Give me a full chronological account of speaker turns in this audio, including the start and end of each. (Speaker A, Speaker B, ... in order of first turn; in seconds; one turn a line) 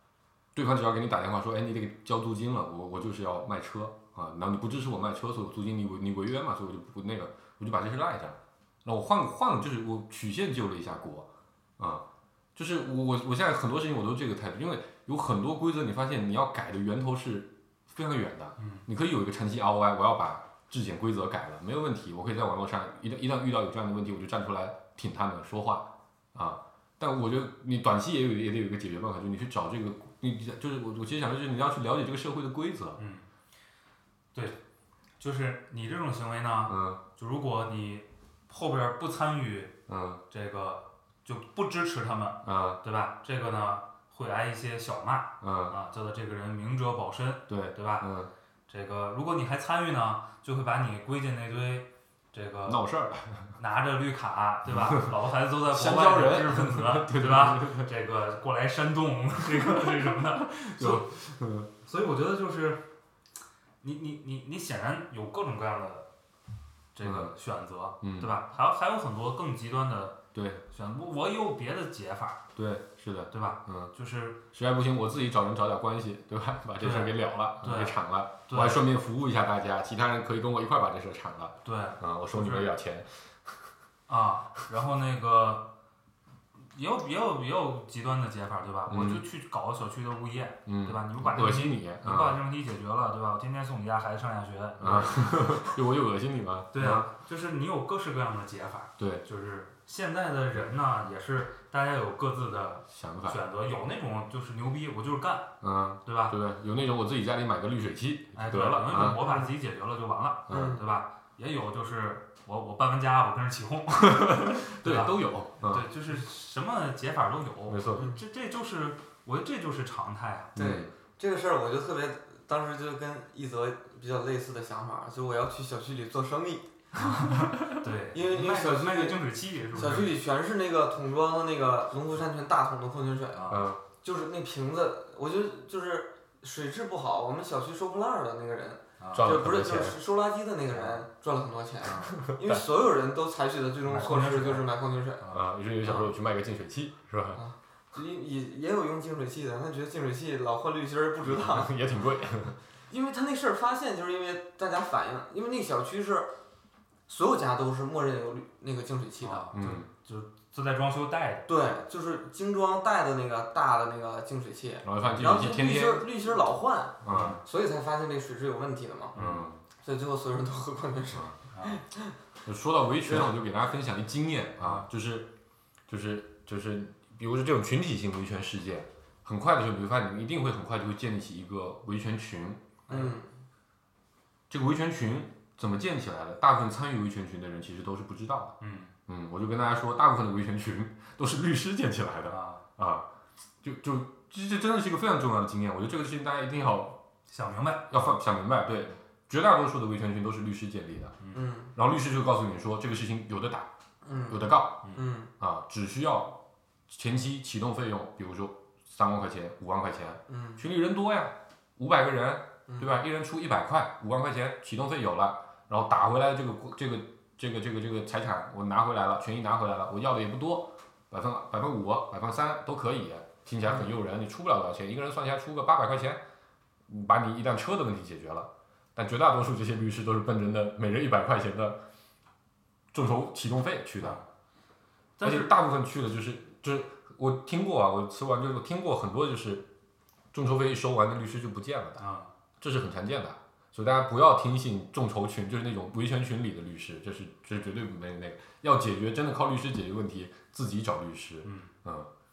Speaker A: 0.6-11.3
Speaker A: 11.8-12.1
Speaker A: 12.6-33.0
Speaker B: 18.6-18.9
Speaker B: 33.0-33.3
Speaker B: 35.2-39.7
Speaker A: 36.7-37.0
Speaker A: 39.9-40.2
Speaker B: 40.3-48.1
Speaker A: 42.4-42.8
Speaker A: 45.4-45.8
Speaker A: 47.5-48.3
Speaker B: 48.7-52.8
Speaker A: 52.6-53.6
Speaker B: 53.6-61.1
Speaker A: 54.7-55.1
Speaker A: 55.7-57.9
Speaker A: 59.8-61.7
Speaker B: 61.8-62.8
Speaker B: 63.8-66.1
Speaker B: 66.9-72.5
Speaker A: 67.0-67.3
Speaker A: 68.0-68.3
Speaker A: 70.3-70.6
Speaker A: 72.6-73.9
Speaker B: 73.3-74.4
Speaker A: 74.5-83.7
Speaker B: 76.8-78.9
Speaker B: 81.6-82.7
Speaker B: 84.1-85.7
Speaker B: 86.7-95.6
Speaker A: 88.9-89.2
Speaker A: 90.7-92.4
Speaker A: 94.8-97.1
Speaker B: 96.7-106.3
Speaker A: 99.0-99.2
Speaker A: 102.9-103.4
Speaker A: 105.6-109.2
Speaker B: 108.3-120.5
Speaker C: 109.1-109.5
Speaker A: 110.5-110.8
Speaker C: 110.5-110.8
Speaker A: 114.0-115.9
Speaker A: 117.7-118.1
Speaker A: 120.5-120.9
Speaker C: 120.6-126.7
Speaker B: 127.0-130.1
Speaker C: 128.1-129.2
Speaker C: 129.7-145.2
Speaker B: 133.3-133.7
Speaker A: 133.5-133.8
Speaker B: 139.0-139.3
Speaker A: 139.1-140.0
Speaker B: 140.7-141.1
Speaker B: 141.9-142.1
Speaker A: 142.3-142.6
Speaker B: 143.9-145.4
Speaker A: 145.3-147.4
Speaker C: 147.3-151.7
Speaker A: 151.2-152.6
Speaker C: 152.9-156.3
Speaker C: 157.1-159.5
Speaker B: 159.2-161.5
Speaker A: 159.5-159.9
Speaker C: 161.5-169.2
Speaker A: 164.8-166.1
Speaker A: 167.0-167.4
Speaker B: 167.1-167.4
Speaker B: 169.1-169.5
Speaker A: 169.2-169.6
Speaker C: 169.8-172.2
Speaker B: 171.5-171.8
Speaker A: 172.4-175.3
Speaker B: 174.6-174.8
Speaker A: 175.9-182.6
Speaker B: 182.9-183.2
Speaker C: 182.9-183.3
Speaker A: 184.5-188.6
Speaker B: 188.6-188.9
Speaker A: 189.1-193.1
Speaker B: 192.3-192.6
Speaker A: 193.6-197.0
Speaker B: 197.3-197.9
Speaker A: 197.9-201.2
Speaker C: 201.3-201.7
Speaker A: 201.7-203.7
Speaker C: 204.0-205.3
Speaker A: 204.3-226.2
Speaker C: 210.3-210.6
Speaker A: 226.9-231.8
Speaker A: 232.9-234.2
Speaker B: 235.2-235.6
Speaker A: 235.2-239.7
Speaker A: 240.3-242.0
Speaker B: 242.0-242.3
Speaker A: 242.6-252.1
Speaker B: 251.4-251.7